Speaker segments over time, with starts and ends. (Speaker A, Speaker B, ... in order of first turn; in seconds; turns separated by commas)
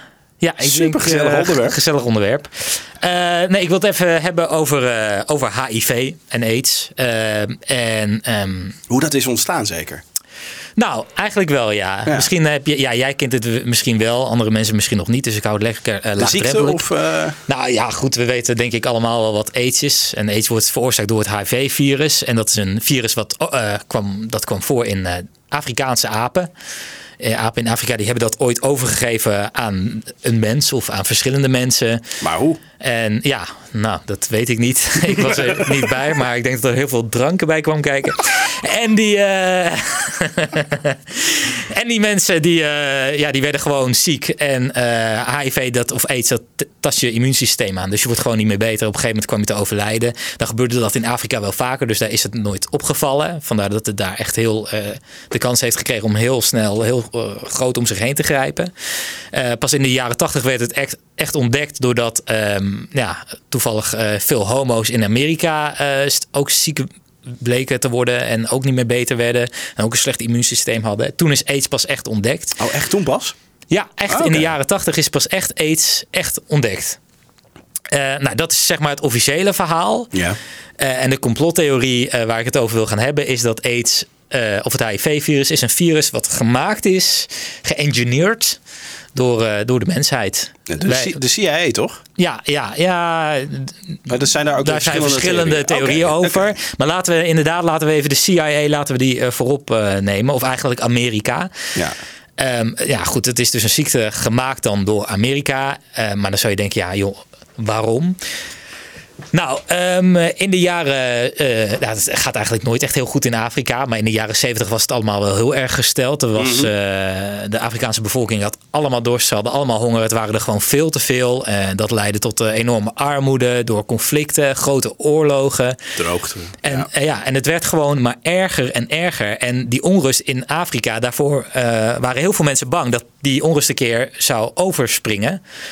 Speaker A: 0.4-8.8, Speaker B: 0.6-1.8, Speaker B: 8.9-10.0, Speaker A: 10.8-16.8, Speaker B: 16.2-17.4, Speaker A: 17.5-26.5, Speaker A: 27.2-32.0, Speaker B: 32.2-32.6, Speaker A: 32.8-58.7, Speaker B: 35.1-35.8, Speaker A: 59.3-72.6, Speaker B: 72.6-73.3, Speaker A: 73.7-77.0, Speaker B: 74.1-74.5, Speaker A: 77.9-80.1, Speaker B: 80.1-80.4, Speaker A: 80.8-88.6, Speaker A: 89.1-91.2, Speaker B: 90.7-92.0, Speaker A: 92.2-94.0, Speaker B: 94.1-96.5, Speaker A: 94.6-101.7, Speaker A: 102.4-108.2, Speaker A: 109.3-126.0, Speaker B: 116.4-116.7, Speaker B: 126.0-126.9, Speaker A: 126.6-135.4